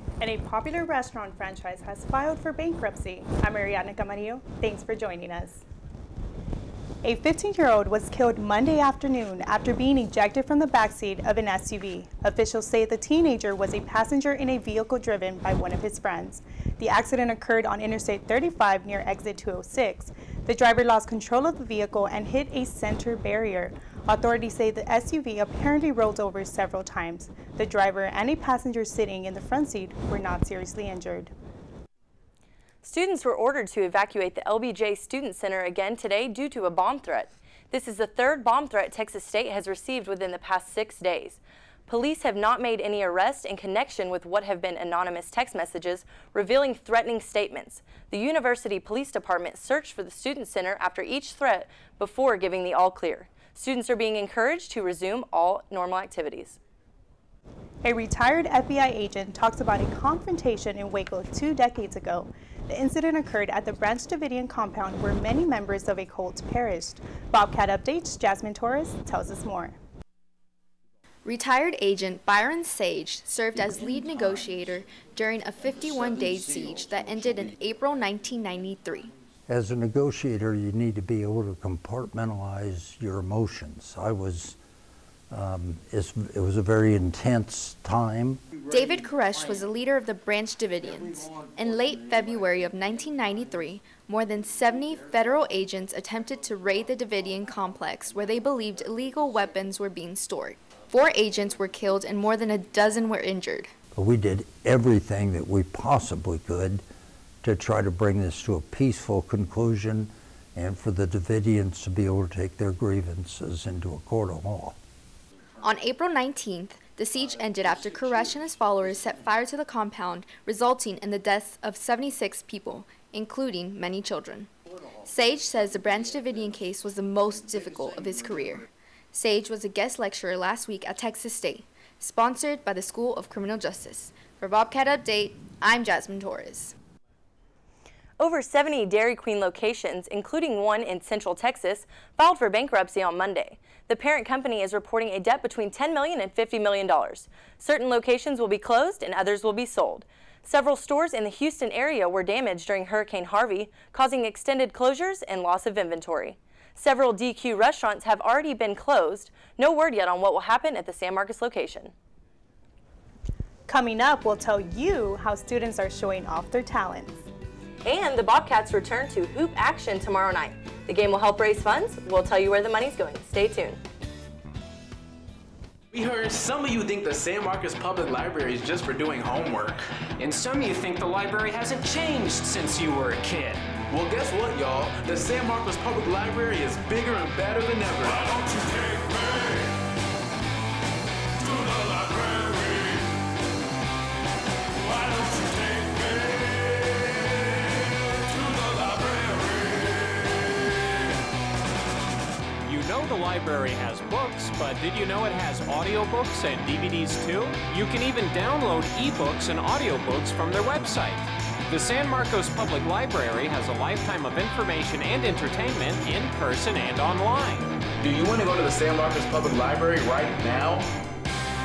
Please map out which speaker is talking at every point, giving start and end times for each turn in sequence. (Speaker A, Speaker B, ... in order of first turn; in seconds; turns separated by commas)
Speaker A: 0.2-5.6, Speaker A: 7.0-31.3, Speaker B: 32.8-56.6, Speaker A: 57.8-69.8, Speaker C: 71.2-79.1, Speaker D: 79.5-84.6, Speaker D: 85.3-88.4, Speaker C: 88.7-103.7, Speaker D: 103.9-106.8, Speaker D: 107.4-114.8, Speaker C: 115.6-124.5, Speaker C: 125.0-136.7, Speaker B: 138.2-161.9, Speaker A: 163.7-167.3, Speaker B: 167.8-173.8, Speaker E: 175.9-179.8, Speaker F: 180.2-183.7, Speaker E: 183.9-188.4, Speaker G: 202.7-217.7, Speaker E: 218.0-220.8